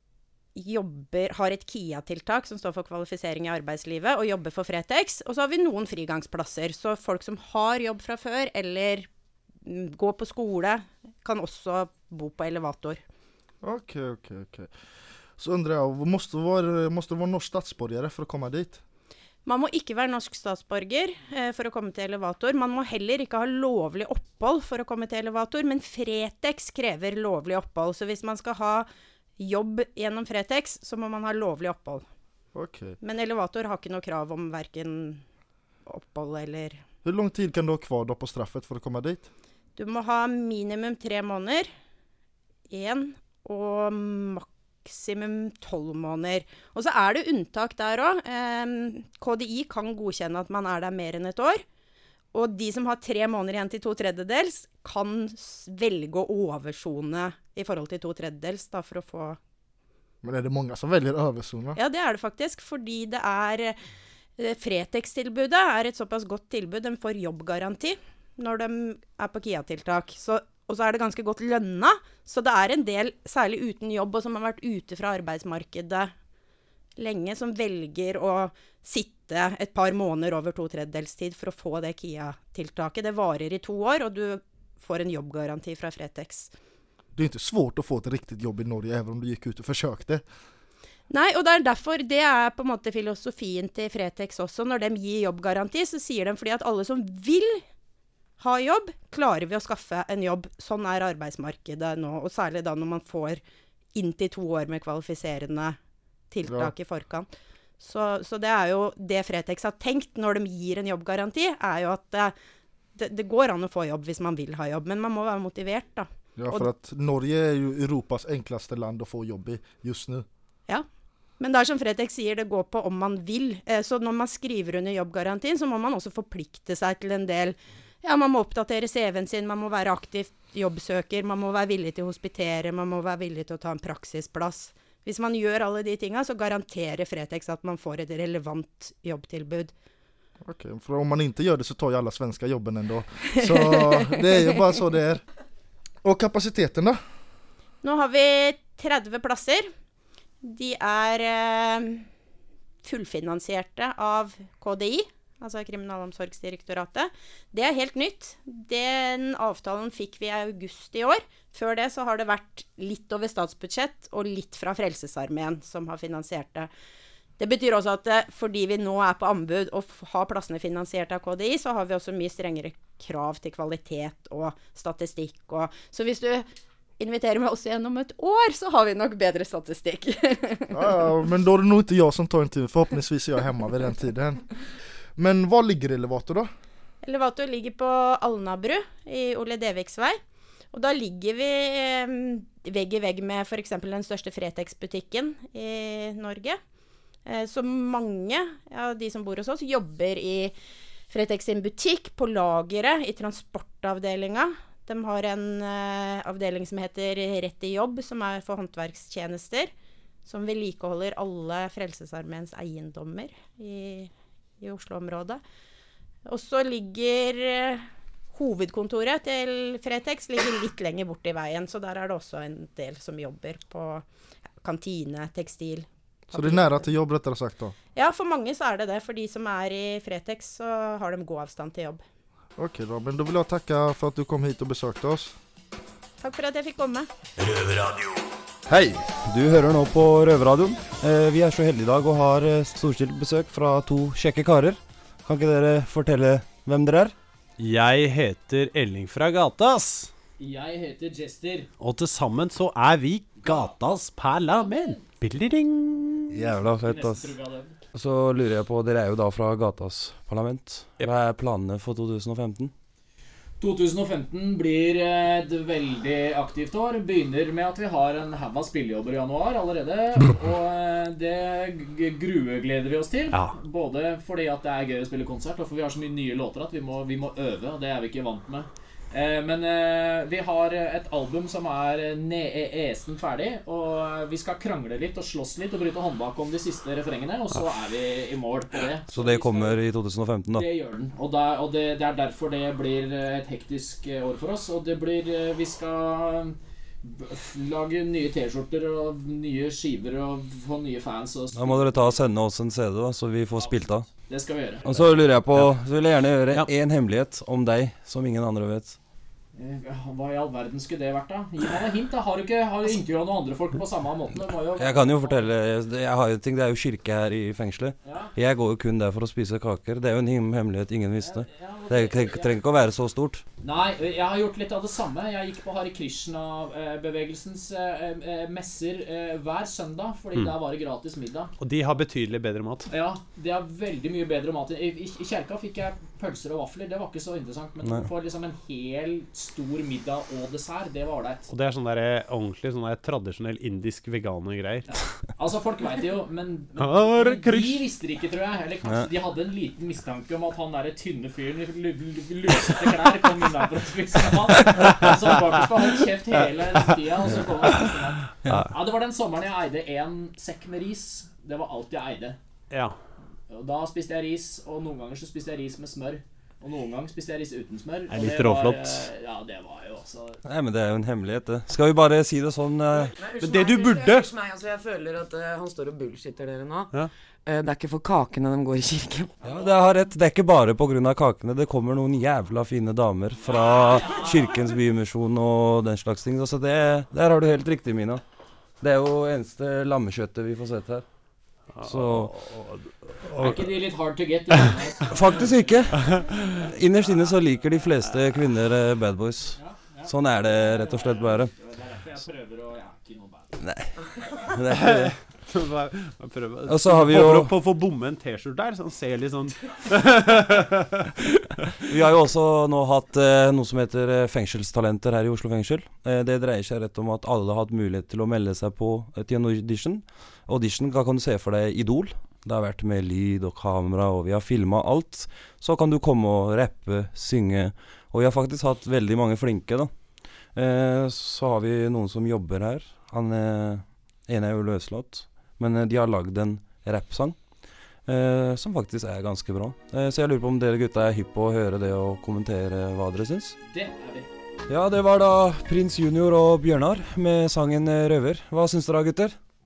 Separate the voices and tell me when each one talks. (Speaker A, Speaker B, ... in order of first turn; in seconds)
Speaker A: 0.6-9.1, 9.6-13.0, 19.5-28.9, 29.4-32.0, 33.0-35.2, 35.9-36.8, 39.8-41.7, 42.7-51.6, 52.3-59.4, 61.8-63.8, 64.4-76.1, 77.0-86.5, 91.1-97.6, 98.4-103.4, 104.0-105.8, 106.3-107.3, 107.8-112.3, 113.0-116.7, 121.4-139.7, 147.8-149.7, 150.4-152.1, 152.8-166.7, 167.4-176.5, 177.0-180.8, 187.0-190.2, 190.7-196.6, 197.3-200.5, 201.1-209.7, 210.2-214.1, 214.6-215.4, 216.3-224.1, 224.6-226.9, 227.9-232.0, 236.2-237.1
Speaker B: 13.6-18.8, 32.5-33.0, 37.0-39.3, 60.2-61.8, 87.2-90.2, 106.5-106.7, 116.4-120.3, 140.4-145.2, 146.0-147.0, 180.7-184.6, 185.2-186.5, 226.3-227.8, 232.6-235.4
Speaker C: 238.7-247.2, 256.3-257.3, 257.9-262.7, 289.1-290.6, 301.5-304.1, 304.8-309.0, 314.8-323.4, 370.4-373.2, 379.4-388.2, 388.8-391.1, 391.8-392.4, 395.1-401.5, 403.6-403.9, 404.5-405.1, 406.7-407.6, 411.9-443.6, 444.7-449.4
Speaker D: 247.6-250.1, 251.8-256.3, 331.6-332.9, 341.5-345.3, 346.8-347.9, 358.4-358.7, 362.7-362.9, 368.1-369.1, 373.4-374.3, 391.7-393.8, 404.7-411.4
Speaker E: 250.4-251.7, 253.4-253.8, 254.5-255.1, 256.4-257.8, 263.6-289.8, 290.5-302.2, 303.6-305.1, 309.6-315.5, 318.0-318.3, 321.2-322.6, 323.6-331.5, 332.9-341.5, 344.9-362.4, 363.5-370.4, 383.4-384.6, 393.4-395.7, 399.6-403.5, 443.7-444.3
Speaker F: 373.1-379.3